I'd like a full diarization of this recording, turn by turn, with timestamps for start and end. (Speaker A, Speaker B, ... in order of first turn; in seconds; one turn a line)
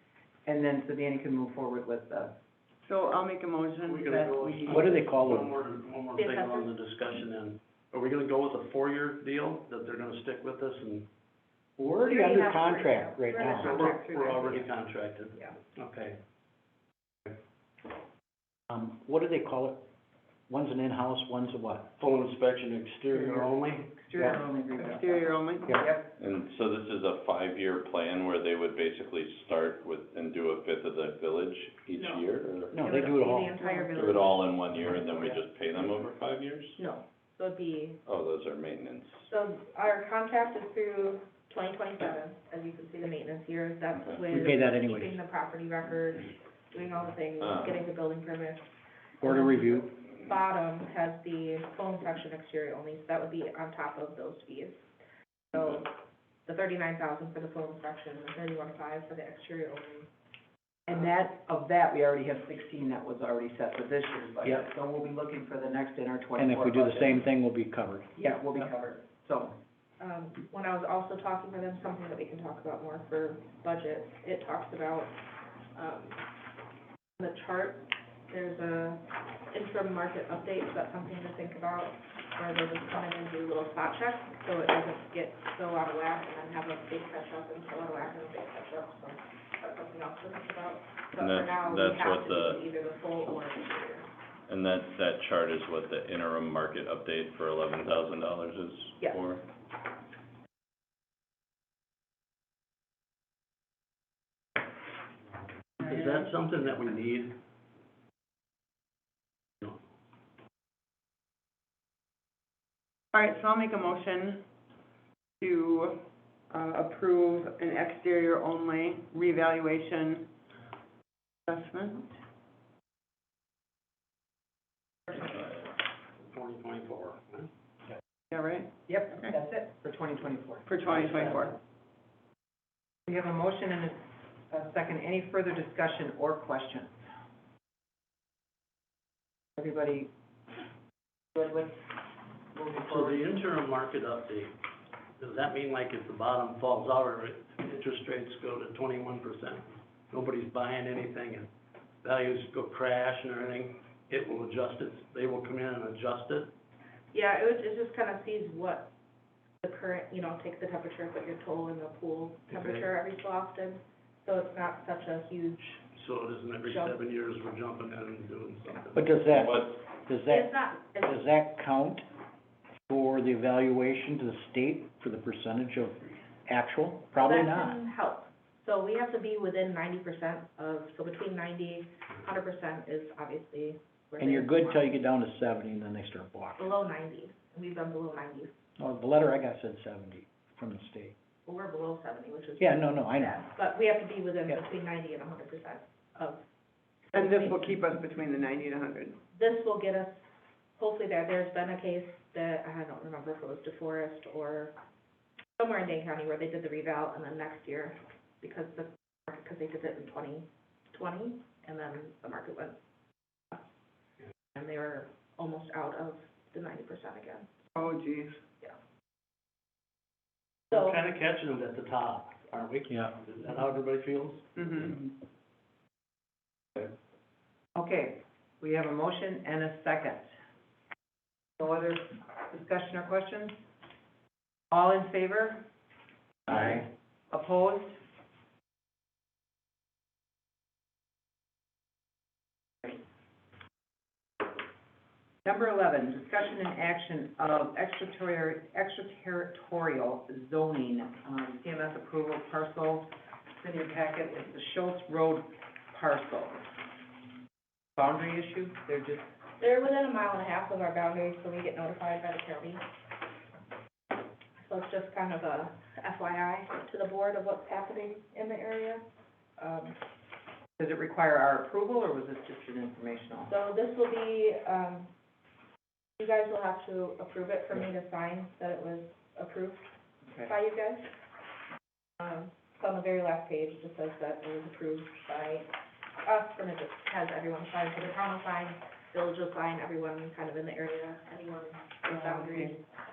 Speaker A: 0.5-2.4
Speaker B: 2.9-4.9
Speaker C: 3.8-11.1
Speaker A: 4.0-4.8
Speaker D: 4.7-5.5
Speaker E: 6.2-6.7
Speaker D: 11.8-13.8
Speaker E: 12.0-14.7
Speaker B: 13.6-14.6
Speaker C: 13.6-16.2
Speaker D: 18.7-19.9
Speaker D: 20.5-21.9
Speaker C: 22.0-24.1
Speaker A: 23.2-26.1
Speaker B: 24.2-25.8
Speaker F: 26.2-32.7
Speaker E: 32.0-34.4
Speaker D: 32.7-33.8
Speaker F: 34.0-36.8
Speaker E: 36.8-38.0
Speaker F: 38.0-39.3
Speaker E: 39.3-48.7
Speaker D: 44.3-45.2
Speaker F: 47.4-47.8
Speaker D: 49.2-49.9
Speaker E: 49.2-54.8
Speaker E: 55.5-60.1
Speaker A: 60.9-67.2
Speaker D: 66.4-68.7
Speaker A: 68.2-69.5
Speaker E: 70.0-75.1
Speaker E: 75.7-76.2
Speaker E: 77.2-94.1
Speaker F: 91.2-92.6
Speaker F: 94.5-99.4
Speaker C: 105.8-107.4
Speaker B: 113.1-114.4
Speaker B: 115.4-120.3
Speaker B: 121.5-122.1
Speaker C: 126.3-127.5
Speaker B: 128.3-129.3
Speaker A: 128.9-131.4
Speaker B: 130.7-131.6
Speaker A: 133.1-136.9
Speaker A: 139.6-140.1
Speaker A: 141.3-141.8
Speaker A: 142.5-143.2
Speaker C: 142.6-144.6
Speaker C: 145.2-151.5
Speaker C: 152.0-156.6
Speaker E: 157.1-158.9
Speaker E: 159.6-165.6
Speaker C: 162.5-162.9
Speaker C: 165.6-169.3
Speaker E: 166.7-166.9
Speaker D: 168.9-172.1
Speaker F: 169.3-169.8
Speaker E: 170.3-171.2
Speaker D: 172.9-177.8
Speaker E: 177.2-184.9
Speaker D: 184.2-186.7
Speaker E: 186.6-188.5
Speaker D: 188.8-191.1
Speaker E: 191.5-196.4
Speaker D: 192.6-193.4
Speaker E: 197.1-197.7
Speaker B: 197.1-199.2
Speaker E: 199.3-200.2
Speaker E: 200.8-204.8
Speaker E: 205.6-212.8
Speaker E: 214.6-217.5
Speaker B: 217.8-218.4
Speaker C: 220.7-225.0
Speaker B: 224.6-224.9
Speaker A: 227.8-230.4
Speaker A: 231.6-233.6
Speaker A: 234.7-235.7
Speaker A: 236.5-238.0
Speaker A: 245.4-256.6
Speaker A: 258.0-259.2
Speaker E: 259.6-262.8
Speaker E: 264.6-269.0
Speaker E: 269.6-270.0
Speaker A: 270.8-273.5
Speaker E: 273.5-275.1
Speaker E: 276.2-279.8
Speaker E: 280.4-281.1
Speaker E: 282.2-285.7
Speaker E: 286.2-292.8
Speaker B: 292.1-292.7